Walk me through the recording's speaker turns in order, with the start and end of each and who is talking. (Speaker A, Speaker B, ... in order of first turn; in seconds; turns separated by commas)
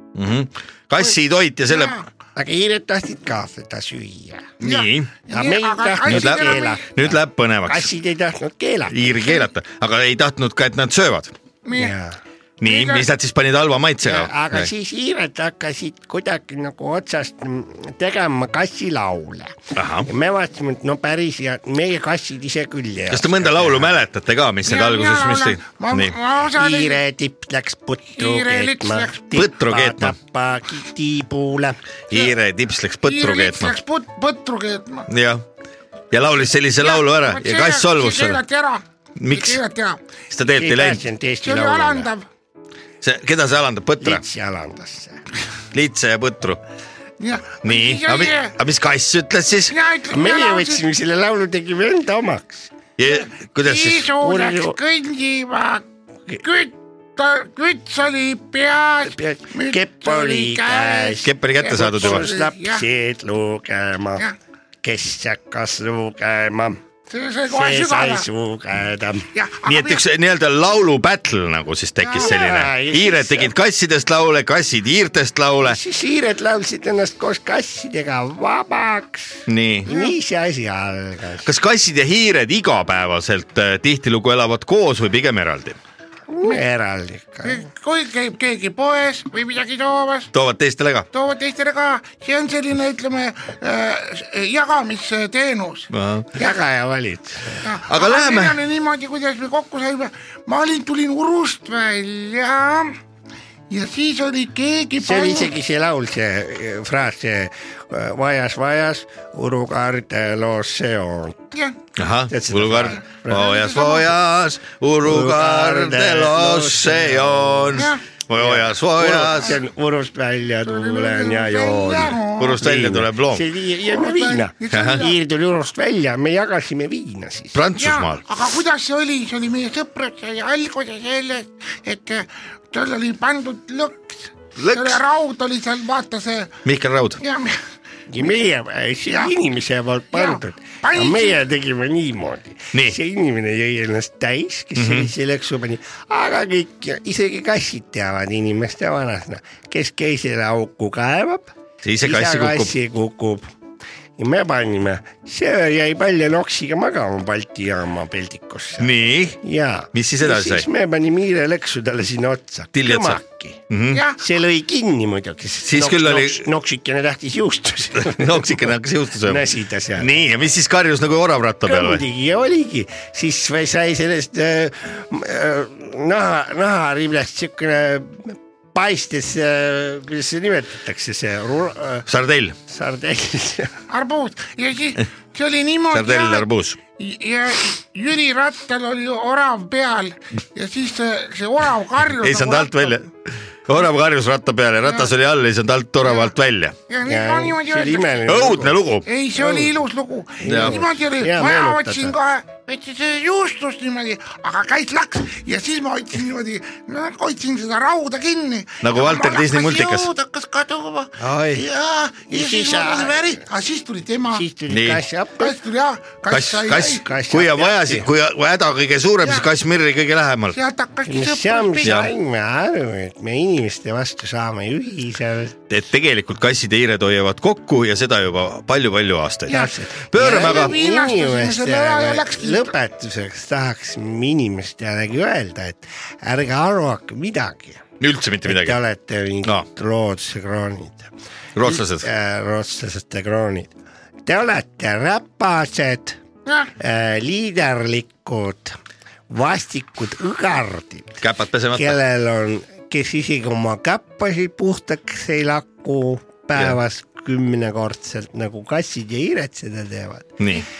Speaker A: 0.1-2.0, Speaker B: 1.7-2.1, Speaker C: 2.4-4.5, Speaker A: 4.6-5.1, Speaker B: 4.6-6.8, Speaker C: 5.3-9.4, Speaker A: 6.1-7.9, Speaker A: 8.9-11.3, Speaker B: 11.7-11.9, Speaker C: 11.7-12.2, Speaker A: 12.6-14.7, Speaker B: 12.6-13.1, Speaker C: 14.0-24.0, Speaker A: 19.8-20.1, Speaker A: 23.1-26.1, Speaker B: 24.6-27.0, Speaker C: 26.6-31.8, Speaker B: 28.1-29.4, Speaker A: 29.3-30.2, Speaker A: 32.1-33.8, Speaker B: 33.0-35.1, Speaker A: 35.1-35.5, Speaker A: 36.1-38.4, Speaker B: 36.8-40.0, Speaker A: 39.2-39.6, Speaker A: 40.3-41.0, Speaker C: 40.5-42.1, Speaker B: 41.4-42.2, Speaker A: 43.0-44.2, Speaker C: 44.0-45.2, Speaker A: 45.7-46.6, Speaker B: 47.2-48.5, Speaker A: 47.6-49.7, Speaker B: 49.7-50.9, Speaker C: 50.1-52.7, Speaker A: 53.0-54.1, Speaker B: 53.0-55.9, Speaker C: 54.2-54.8, Speaker B: 56.4-62.8, Speaker C: 59.0-64.3, Speaker A: 61.2-62.3, Speaker C: 64.8-66.8, Speaker B: 67.1-68.3, Speaker C: 67.5-69.3, Speaker B: 69.3-70.0, Speaker A: 69.7-75.8, Speaker B: 72.0-72.4, Speaker C: 72.2-73.5, Speaker C: 75.6-81.5, Speaker A: 79.5-79.9, Speaker B: 79.9-80.1, Speaker A: 81.4-85.8, Speaker C: 86.3-87.7, Speaker B: 87.4-90.3, Speaker A: 90.3-91.1, Speaker B: 91.1-96.5, Speaker A: 95.9-96.3, Speaker C: 96.3-97.7, Speaker B: 97.6-103.0, Speaker A: 97.9-98.6, Speaker B: 103.7-105.5, Speaker C: 105.0-111.4, Speaker A: 112.0-119.6, Speaker C: 112.3-113.5, Speaker B: 112.9-114.1, Speaker C: 115.0-117.9, Speaker B: 117.8-118.0, Speaker C: 118.4-127.6, Speaker B: 120.7-122.6, Speaker A: 122.4-123.5, Speaker B: 123.8-125.2, Speaker A: 124.7-125.1, Speaker A: 127.5-128.2, Speaker B: 127.8-136.5, Speaker A: 134.6-135.0, Speaker A: 136.7-137.2, Speaker B: 137.2-137.6, Speaker C: 138.1-153.5, Speaker B: 139.1-139.3, Speaker B: 140.1-141.4, Speaker A: 144.8-145.1, Speaker A: 151.8-152.7, Speaker C: 154.2-158.9, Speaker A: 158.8-159.4, Speaker C: 159.4-163.6, Speaker A: 159.9-160.7, Speaker A: 162.7-164.0, Speaker B: 163.9-164.2, Speaker C: 164.2-168.7, Speaker A: 165.7-166.4, Speaker A: 168.0-169.4, Speaker C: 169.2-170.1, Speaker A: 170.0-172.0, Speaker C: 171.6-182.0, Speaker A: 182.1-182.6, Speaker C: 182.7-183.8, Speaker B: 183.9-186.5, Speaker A: 185.9-186.8, Speaker B: 187.0-193.0, Speaker A: 192.2-193.1, Speaker A: 193.7-196.8, Speaker B: 194.8-195.1, Speaker B: 196.0-196.3, Speaker B: 196.9-198.3, Speaker C: 197.1-198.8, Speaker A: 198.3-199.1, Speaker B: 199.1-214.4, Speaker C: 199.4-199.8, Speaker C: 200.4-202.2, Speaker A: 200.4-200.8, Speaker A: 208.8-210.1, Speaker A: 211.2-211.6, Speaker C: 212.3-213.4, Speaker C: 214.3-215.6, Speaker A: 214.7-215.0, Speaker B: 215.4-217.1, Speaker A: 216.3-220.6, Speaker C: 216.9-218.1, Speaker B: 219.2-219.5, Speaker B: 220.5-222.0, Speaker C: 221.1-225.6, Speaker A: 221.8-222.1, Speaker A: 225.7-229.6, Speaker B: 229.5-232.8, Speaker C: 229.5-237.8, Speaker A: 230.1-230.8, Speaker A: 238.0-238.8, Speaker C: 238.4-241.1, Speaker A: 241.6-242.1, Speaker C: 241.6-243.7, Speaker C: 244.3-246.2, Speaker B: 246.5-246.7, Speaker C: 246.8-248.8, Speaker C: 249.3-251.2, Speaker A: 251.2-252.0, Speaker C: 251.7-260.4, Speaker A: 260.4-260.6